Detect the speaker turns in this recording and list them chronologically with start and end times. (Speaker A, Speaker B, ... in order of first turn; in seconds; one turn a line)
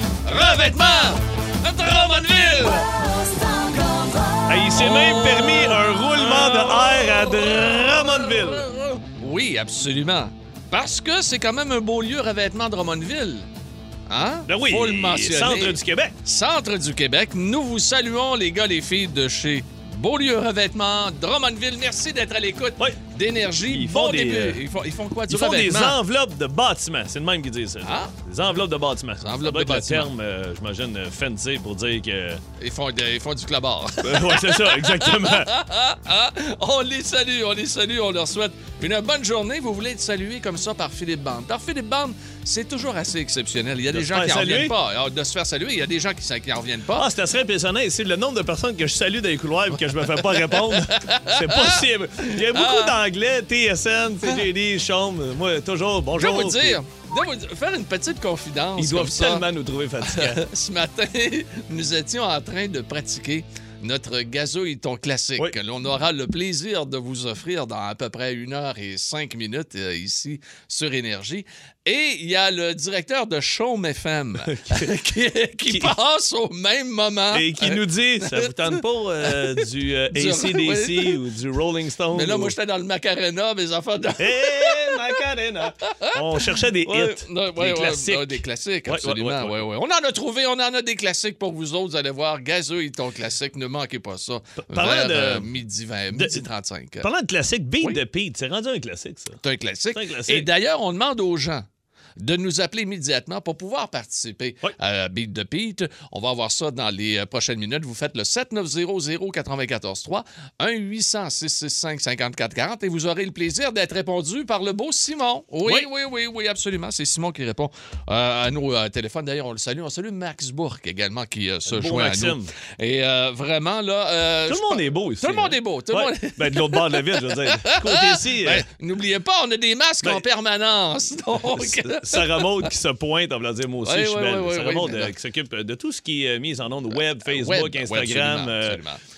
Speaker A: 0.2-2.9
Speaker B: 4.5-8.7
Speaker A: 4.8-7.2
Speaker A: 8.6-13.5
Speaker A: 14.1-26.0
Speaker B: 14.5-16.1
Speaker B: 23.7-24.6
Speaker B: 25.3-32.4
Speaker A: 27.8-28.1
Speaker A: 29.2-30.1
Speaker A: 32.6-47.1
Speaker B: 34.0-35.5
Speaker B: 43.9-44.7
Speaker B: 47.0-56.8
Speaker A: 50.1-53.0
Speaker A: 56.2-59.5
Speaker B: 58.8-60.4
Speaker A: 60.0-81.2
Speaker B: 74.5-74.9
Speaker B: 77.3-82.5
Speaker A: 82.1-85.2
Speaker B: 84.2-89.7
Speaker A: 85.9-97.1
Speaker B: 94.7-95.5
Speaker B: 96.1-96.4
Speaker B: 97.0-99.4
Speaker A: 99.4-101.7
Speaker B: 99.9-100.5
Speaker A: 102.2-132.7
Speaker B: 121.7-122.5
Speaker B: 124.5-128.7
Speaker B: 131.5-138.8
Speaker A: 133.8-135.1
Speaker A: 137.2-139.0